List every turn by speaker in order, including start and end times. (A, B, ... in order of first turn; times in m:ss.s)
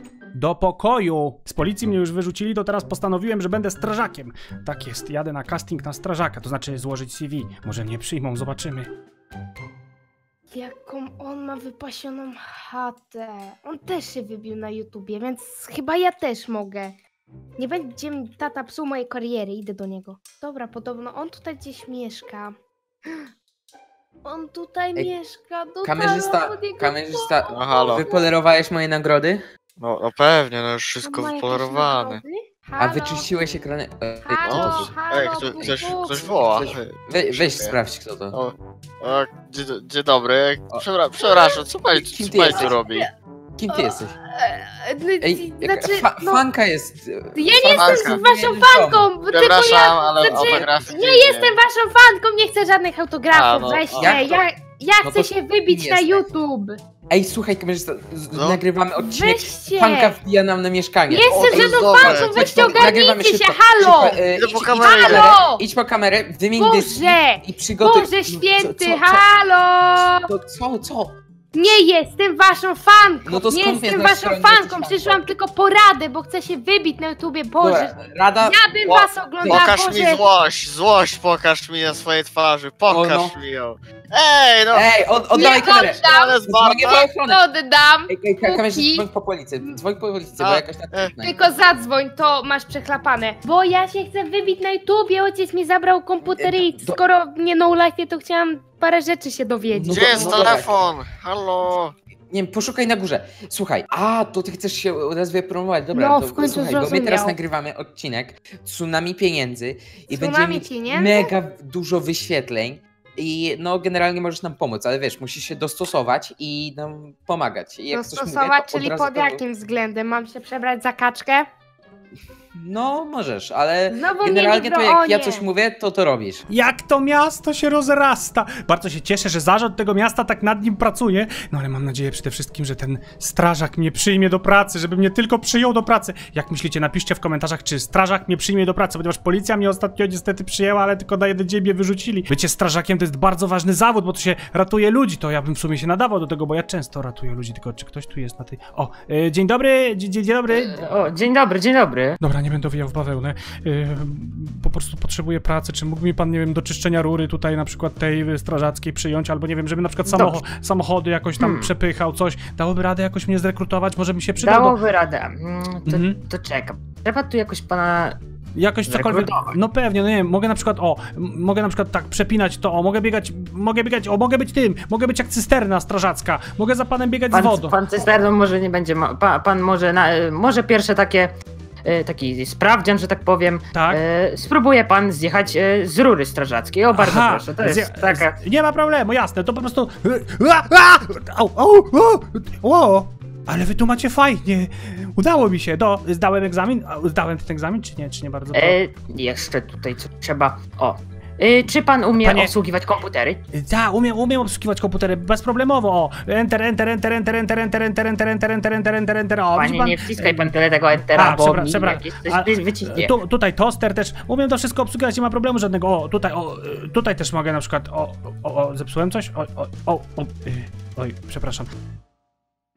0:00.3-0:08.9 A
0:10.5-0:16.9 B
0:17.6-0:22.5 B
0:24.2-0:28.3 B
0:25.8-0:29.4 C
0:27.5-0:28.0 D
0:29.8-0:32.2 D
0:31.0-0:33.3 B
0:32.8-0:34.9 C
0:34.2-0:36.4 B
0:34.4-0:37.7 D
0:36.4-0:38.4 C
0:38.3-0:43.1 D
0:41.2-0:41.6 B
0:41.9-0:42.8 C
0:42.5-0:43.1 B
0:43.6-0:44.1 C
0:43.7-0:46.4 B
0:45.2-0:49.1 C
0:47.4-0:56.8 B
0:47.7-0:48.2 D
0:49.3-0:51.6 D
0:50.2-0:50.7 C
0:53.3-0:54.4 D
0:53.9-0:54.4 C
0:55.0-0:56.2 C
0:57.1-1:09.2 C
0:58.3-0:58.6 D
0:59.0-1:00.2 B
1:01.1-1:04.2 B
1:01.2-1:03.0 D
1:04.2-1:05.4 D
1:04.8-1:05.6 B
1:06.6-1:10.3 B
1:10.1-1:11.2 C
1:11.5-1:20.2 B
1:13.2-1:15.3 C
1:17.6-1:18.6 C
1:18.8-1:25.4 D
1:22.9-1:23.4 C
1:24.7-1:27.4 C
1:25.3-1:29.0 B
1:26.0-1:27.0 D
1:28.1-1:31.4 C
1:30.4-1:31.1 D
1:31.2-1:40.5 B
1:36.2-1:37.0 C
1:39.7-1:40.8 C
1:39.8-1:41.9 D
1:42.3-1:59.4 C
1:45.9-1:47.4 B
1:50.1-1:51.3 B
1:57.9-2:01.5 B
2:02.6-2:06.4 C
2:03.9-2:05.4 B
2:06.5-2:30.8 A
2:30.5-2:32.2 E
2:32.2-2:44.8 A
2:40.1-2:40.4 E
2:41.4-2:41.7 E
2:44.4-2:48.2 E
2:45.9-2:46.2 A
2:48.5-2:57.8 A
2:48.9-2:49.6 E
2:57.3-3:01.3 E
3:01.8-3:08.4 E
3:03.7-3:04.0 A
3:06.9-3:18.8 A
3:18.5-3:23.4 E
3:22.2-3:22.5 A
3:23.5-3:30.5 A
3:29.5-3:33.1 E
3:31.1-3:41.7 A